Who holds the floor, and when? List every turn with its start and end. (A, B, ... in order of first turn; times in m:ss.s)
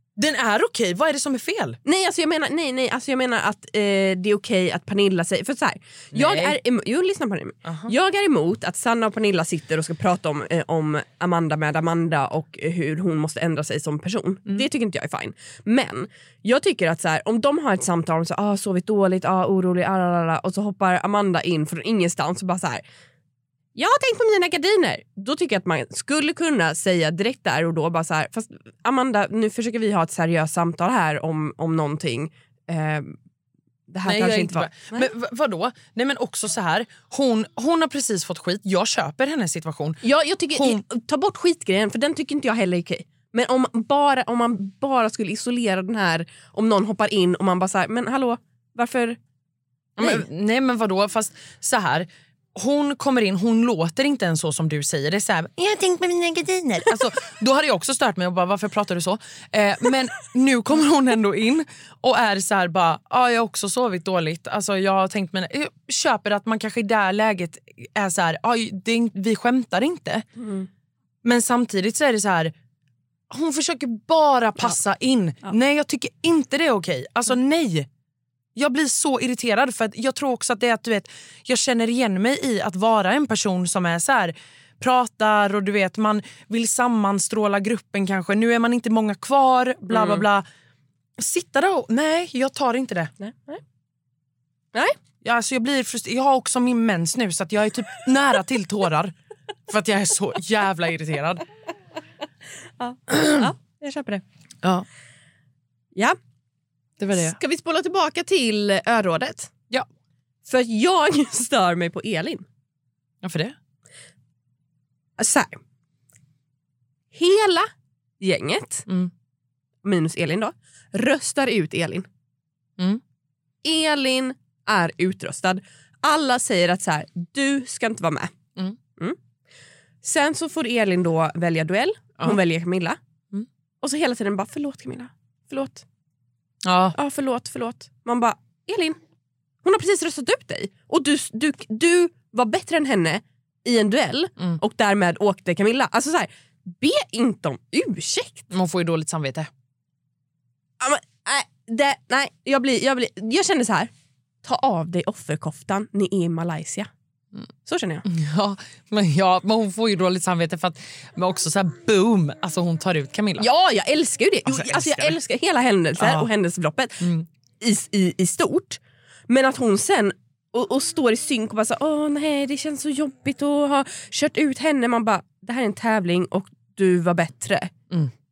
0:00.2-0:01.8 A
0:01.8-0:22.8 B
0:06.1-0:06.6 A
0:07.6-0:07.9 A
0:23.8-0:33.2 B
0:33.9-0:35.1 B
0:34.0-0:40.8 A
0:40.0-0:49.2 B
0:50.0-1:10.2 A
0:50.0-0:50.2 B
1:10.4-1:10.7 B
1:11.2-1:12.5 A
1:13.3-1:17.9 A
1:18.5-1:30.4 A
1:29.9-1:30.2 B
1:31.2-1:33.1 A
1:33.2-1:33.6 B
1:35.2-1:39.1 A
1:39.7-1:41.4 A
1:42.8-1:44.2 B
1:47.0-1:47.4 A
1:47.1-1:49.5 B
1:50.4-1:52.4 B
1:53.2-1:53.5 A
1:55.2-1:55.6 B
1:57.1-1:58.9 B
1:59.8-2:02.1 B
2:03.6-2:08.3 B
2:10.0-2:13.0 B
2:13.8-2:15.8 B
2:16.6-2:17.0 A
2:16.9-2:19.0 B
2:19.6-2:28.5 B
2:28.5-2:29.5 A
2:30.8-2:33.9 B
2:34.4-2:36.9 B
2:37.6-2:38.0 B
2:38.0-2:43.5 A
2:43.4-2:47.0 B
2:44.4-2:45.2 A
2:46.0-2:46.3 A
2:47.0-2:47.2 A
2:47.6-2:57.7 B